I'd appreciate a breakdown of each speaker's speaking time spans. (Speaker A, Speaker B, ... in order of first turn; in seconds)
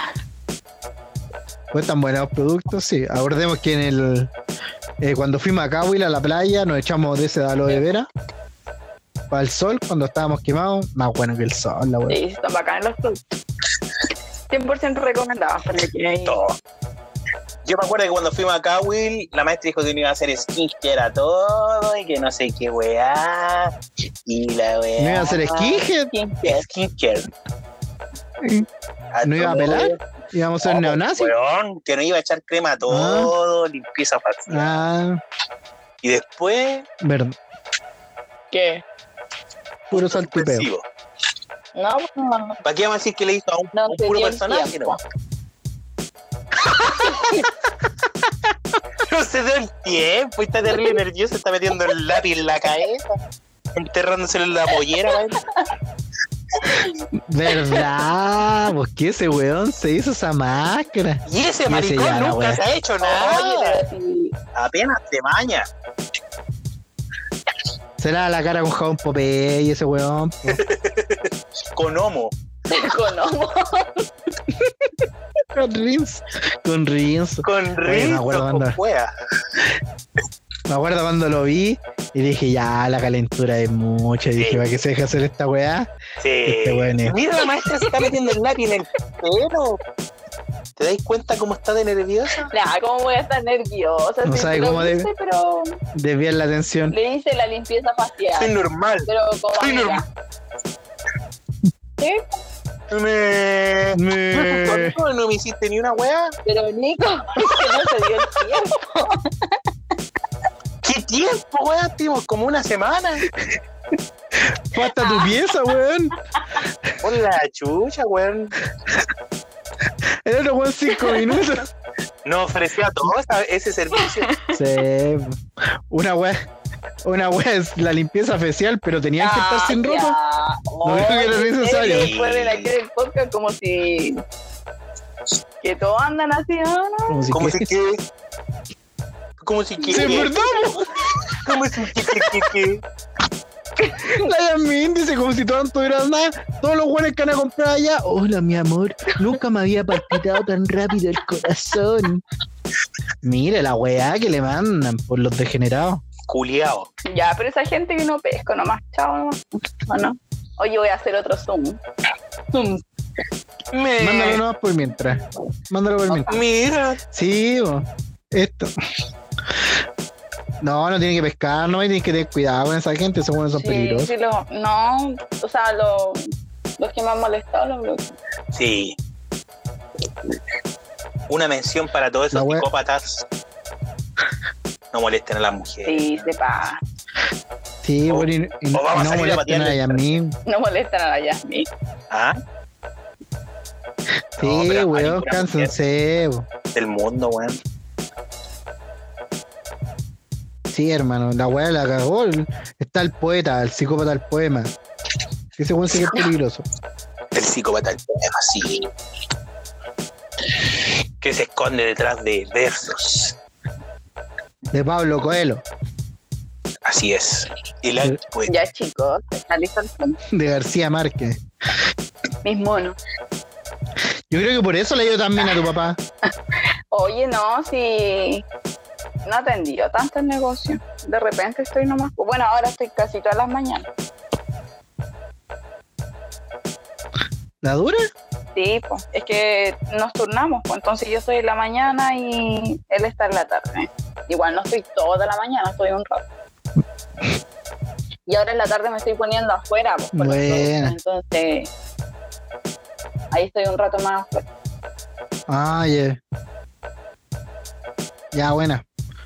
Speaker A: 1.7-4.3, 5.0-8.1, 9.3-12.2, 25.0-26.1, 28.4-28.6, 29.2-31.3, 32.9-33.3, 34.5-35.2, 37.0-37.4, 39.9-40.7, 47.0-47.3, 57.3-62.6, 68.0-70.6, 75.5-78.8, 80.7-85.9, 86.5-87.2, 94.2-95.1, 95.9-96.9, 103.9-105.0, 114.3-117.0, 120.2-121.7, 124.5-126.4, 127.0-130.2, 130.8-132.1, 137.1-137.7, 139.9-141.1, 144.0-152.2, 153.2-156.0, 164.0-166.4, 167.1-168.7, 170.6-174.1, 182.3-182.6, 187.8-190.3, 194.4-196.5, 200.7-204.7, 205.6-206.7, 214.7-215.6, 220.3-221.4, 224.3-226.0, 237.6-238.0, 250.1-250.9, 255.5-256.2, 258.3-258.8
Speaker B: 12.1-13.4, 14.5-16.4, 25.1-26.7, 38.5-38.8, 41.8-42.6, 43.7-45.0, 46.9-47.5, 50.7-51.0, 55.1-55.6, 57.5-57.8, 63.0-64.3, 72.7-74.1, 87.8-88.1, 92.5-95.8, 96.9-98.5, 99.1-100.0, 102.0-102.2, 106.5-109.6, 115.0-115.3, 121.0-121.3, 124.0-124.5, 129.2-134.2, 135.6-137.3, 139.8-140.8, 143.8-144.2, 157.1-161.8, 162.5-162.8, 173.5-176.3, 176.8-178.1, 185.8-186.8, 190.4-191.7, 218.4-220.2, 222.4-222.9, 226.9-228.4, 229.2-233.9, 238.6-246.2, 248.3-251.7, 253.3-254.4
Speaker C: 16.2-16.6, 17.6-23.7, 24.2-25.4, 26.4-27.3, 29.1-30.0, 30.6-34.8, 36.0-36.9, 39.9-40.8, 42.6-45.0, 49.0-53.1, 53.7-55.4, 61.2-63.8, 64.5-65.7, 70.5-72.3, 77.4-79.1, 84.3-84.7, 86.2-89.8, 90.8-92.5, 98.3-99.1, 99.6-100.0, 102.9-106.3, 110.8-113.2, 117.0-118.5, 122.2-124.4, 131.8-132.7, 137.3-138.0, 139.4-140.3, 141.3-142.8, 156.3-156.9, 163.7-164.4, 166.3-167.0, 178.5-179.0, 181.3-183.2, 184.9-186.3, 188.1-190.1, 192.1-192.3, 194.4-195.7, 196.7-197.6, 207.3-208.9, 211.2-213.3, 216.8-218.5